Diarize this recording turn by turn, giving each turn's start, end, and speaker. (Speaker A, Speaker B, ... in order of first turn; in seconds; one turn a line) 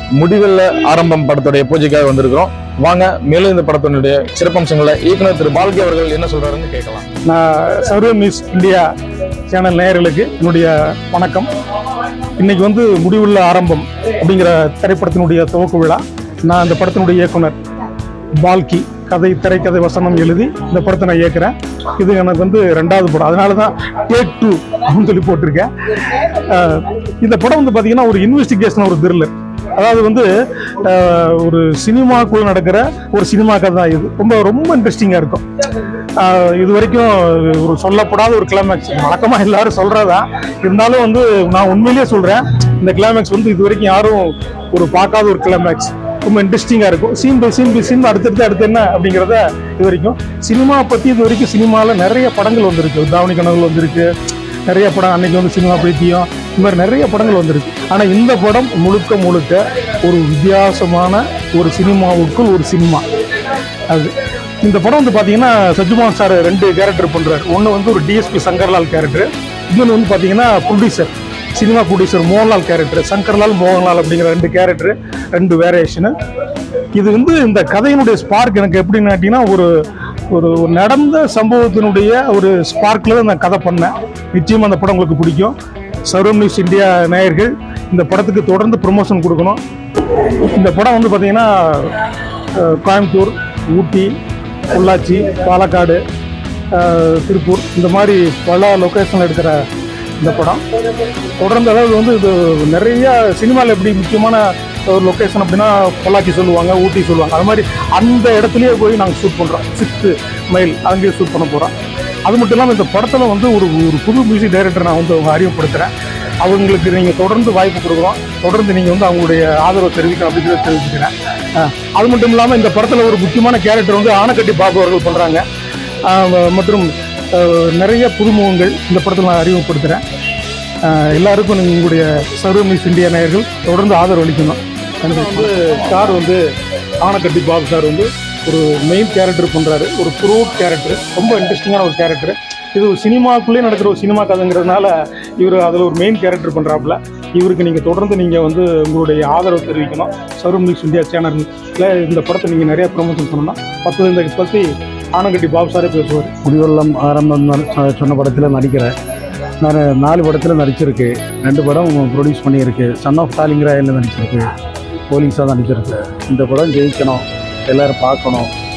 Speaker A: 0.2-7.1
Speaker B: 7.2-8.9
Speaker B: 9.5-11.5
Speaker B: 12.4-17.6
Speaker B: 18.4-25.7
Speaker B: 26.5-30.3
Speaker B: 30.8-35.4
Speaker B: 36.2-54.1
Speaker B: 54.7-63.0
Speaker B: 64.6-76.1
Speaker B: 77.0-79.7
Speaker B: 80.3-85.5
Speaker B: 86.1-89.6
Speaker B: 90.5-91.9
Speaker B: 92.6-94.1
Speaker B: 94.7-96.0
Speaker B: 96.7-99.6
Speaker B: 100.2-100.6
Speaker B: 101.4-111.7
Speaker B: 112.2-115.9
Speaker B: 116.4-125.4
Speaker B: 126.1-130.0
Speaker B: 130.9-136.4
Speaker B: 137.0-156.5
Speaker C: 156.5-158.9
Speaker B: 157.1-157.3
Speaker C: 159.7-164.2
Speaker B: 163.2-163.6
Speaker B: 165.2-165.5
Speaker C: 165.4-167.1
Speaker C: 167.8-168.4